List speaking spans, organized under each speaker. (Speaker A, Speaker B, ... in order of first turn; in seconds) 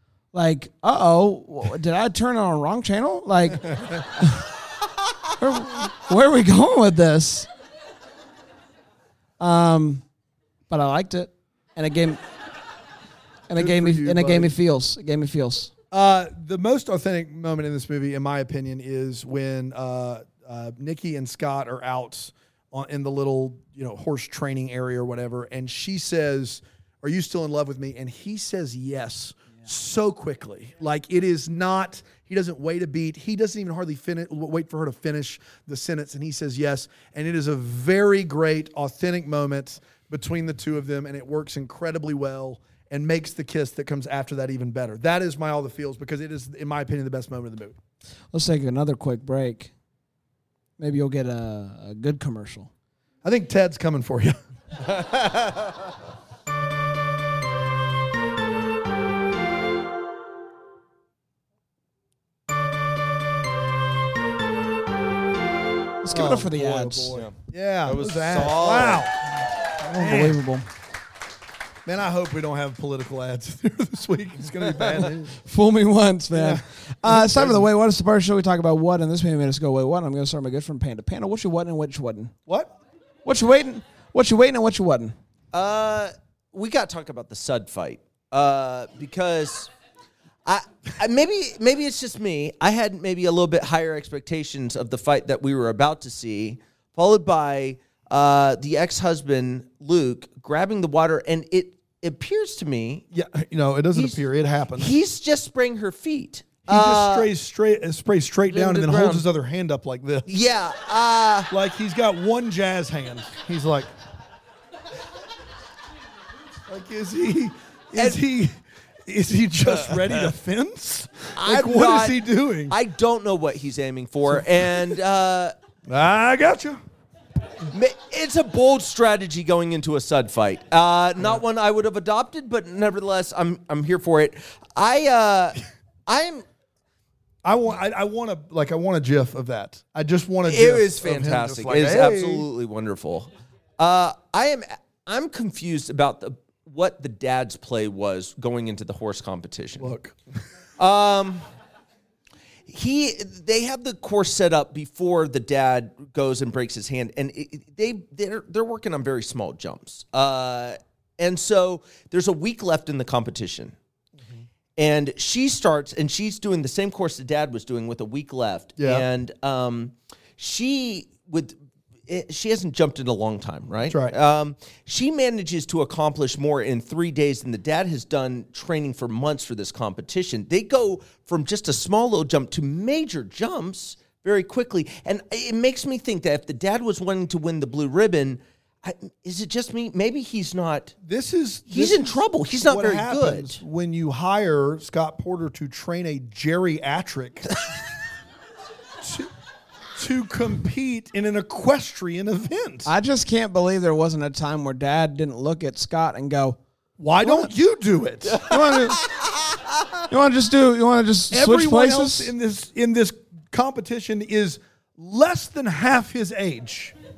Speaker A: 0.3-4.5, 5.4-7.5, 9.4-10.0, 10.7-12.2, 13.5-15.7, 48.3-49.7, 50.8-52.7, 66.0-67.1, 69.8-70.7, 75.4-82.3, 83.2-85.1, 202.8-206.6, 207.2-207.5, 208.4-209.0, 210.1-212.3
Speaker B: 13.6-14.5, 15.9-47.8, 53.2-54.4, 66.1-69.3, 69.9-70.4, 71.8-75.4, 76.3-77.7, 103.1-104.9, 106.7-110.3, 111.5-113.9, 116.7-122.8, 125.9-126.8, 137.4-142.5, 149.8-150.2, 168.8-169.1, 173.9-174.1, 191.0-197.5, 199.0-199.3, 199.9-202.9, 207.0-208.4, 211.3-216.9
Speaker C: 54.9-55.6, 67.8-69.0, 85.5-89.7, 90.4-103.0, 104.8-107.3, 108.5-109.2, 110.3-111.5, 121.4-125.5, 127.7-136.4, 140.4-149.9, 150.8-151.4, 152.7-163.7, 164.8-171.5, 172.1-190.9, 191.7-193.6, 208.3-209.8